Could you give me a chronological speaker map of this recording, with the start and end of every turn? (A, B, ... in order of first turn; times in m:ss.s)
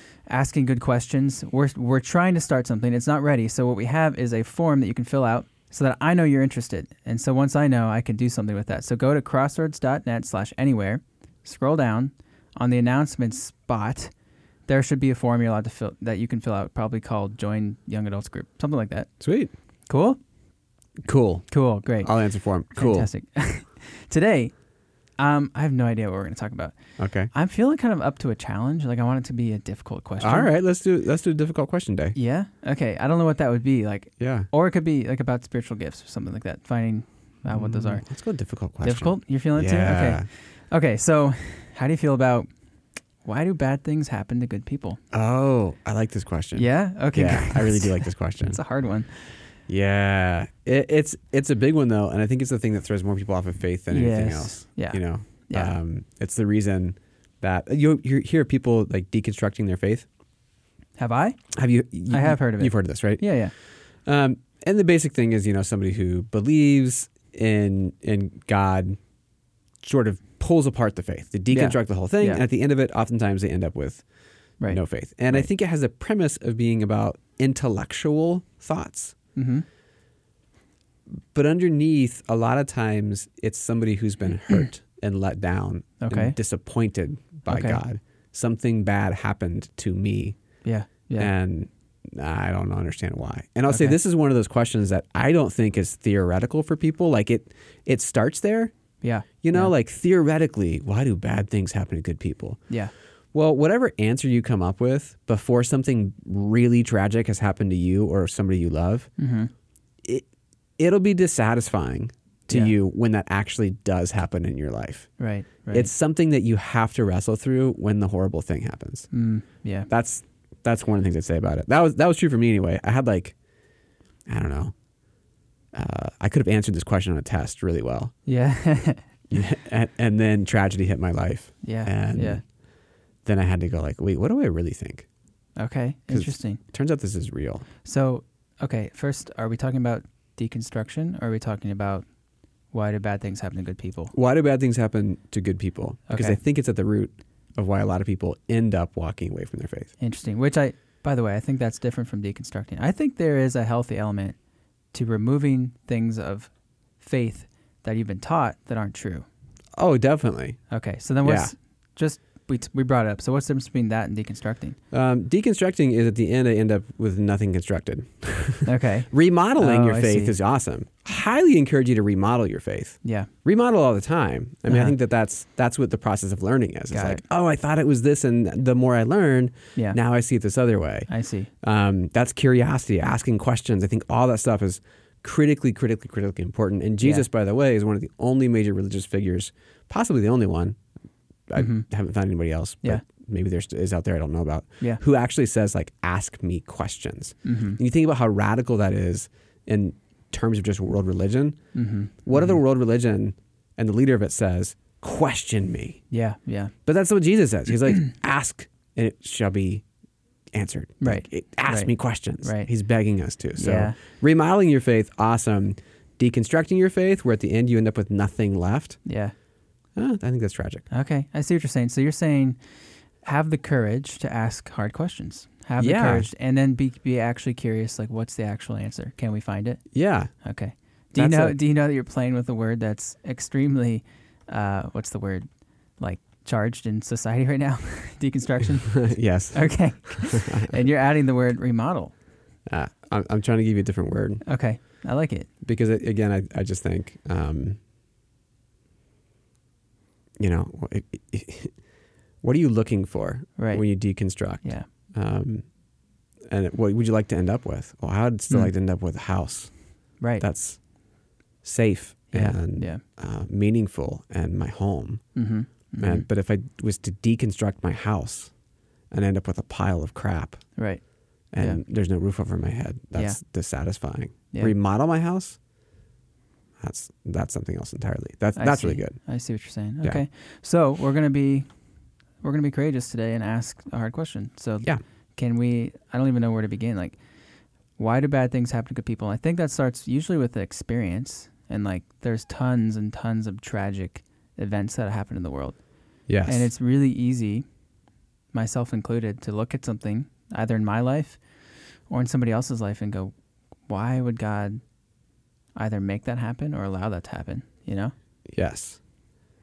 0:00.3-0:14.1 A
0:14.7-0:19.1 A
0:19.2-0:19.5 B
0:19.9-0:20.2 A
0:21.0-0:21.5 B
0:21.5-0:22.1 A
0:22.0-0:23.1 B
0:22.7-0:24.5 A
0:25.2-0:26.7 A
0:27.0-0:27.3 B
0:27.3-0:30.5 A
0:30.2-0:32.2 B
0:32.1-0:38.0 A
0:34.2-0:34.5 B
0:37.5-0:40.3 B
0:38.8-0:42.5 A
0:43.2-0:45.0 A
0:45.1-0:48.6 B
0:46.5-0:49.3 A
0:49.7-1:00.1 B
0:53.9-0:55.7 A
1:01.0-1:01.4 A
1:01.5-1:03.3 B
1:02.1-1:03.5 A
1:04.0-1:09.0 B
1:09.8-1:14.0 B
1:11.5-1:12.4 A
1:14.7-1:19.1 B
1:19.4-1:19.6 A
1:21.3-1:30.4 B
1:26.0-1:26.4 A
1:27.5-1:27.8 A
1:30.6-1:31.3 A
1:31.2-1:38.7 B
1:33.7-1:34.0 A
1:39.0-1:39.7 A
1:39.4-1:42.6 B
1:43.3-1:49.1 B
1:49.2-1:49.5 A
1:50.8-1:55.1 B
1:55.2-1:55.9 A
1:55.7-1:59.1 B
1:59.1-1:59.9 A
1:59.9-2:03.3 B
2:04.3-2:04.7 B
2:05.7-2:08.1 B
2:08.3-2:09.1 A
2:09.3-2:12.4 B
2:11.6-2:12.4 A
2:13.2-2:15.0 B
2:15.6-2:16.6 A
2:16.1-2:17.6 B
2:17.8-2:22.0 A
2:22.7-2:24.1 A
2:24.1-2:29.9 B
2:26.1-2:26.4 A
2:30.0-2:34.4 A
2:34.9-2:39.2 A
2:39.8-2:40.6 B
2:40.7-2:44.8 A
2:41.2-2:41.5 B
2:44.9-3:01.1 B
2:48.6-2:50.3 A
2:53.0-2:53.3 A
2:54.7-2:54.9 A
2:56.9-2:57.2 A
3:01.1-3:01.5 A
3:01.6-3:10.8 B
3:07.0-3:07.2 A
3:11.5-3:21.6 B
3:11.6-3:11.8 A
3:17.4-3:17.8 A
3:21.7-3:22.6 A
3:22.2-3:26.0 B
3:26.1-3:26.7 A
3:26.8-3:29.8 B
3:30.5-3:39.0 B
3:31.0-3:31.9 A
3:32.4-3:32.7 A
3:33.6-3:34.0 A
3:39.0-3:39.3 A
3:40.0-3:40.8 B
3:40.9-3:42.6 A
3:43.2-3:49.8 A
3:45.8-3:46.3 B
3:49.9-3:50.3 B
3:50.4-3:55.4 A
3:51.1-3:51.6 B
3:56.0-4:02.1 A
3:58.9-4:00.7 B
4:02.7-4:04.4 B
4:04.4-4:05.5 A
4:05.6-4:07.8 B
4:10.4-4:11.7 B
4:12.4-4:15.6 B
4:13.6-4:13.8 A
4:16.5-4:19.7 B
4:20.2-4:20.4 A
4:20.4-4:20.8 B
4:21.6-4:25.2 B
4:22.3-4:23.0 A
4:25.3-4:26.2 A
4:26.0-4:28.5 B
4:29.1-4:30.6 B
4:30.8-4:31.0 A
4:31.5-4:35.6 B
4:36.8-4:39.2 B
4:38.6-4:41.7 A
4:42.4-4:47.2 A
4:48.0-4:55.8 A
4:56.3-4:56.7 B
4:56.4-4:57.6 A
4:58.5-5:01.4 A
5:02.1-5:03.3 A
5:03.9-5:04.8 A
5:05.7-5:08.1 A
5:08.5-5:09.0 B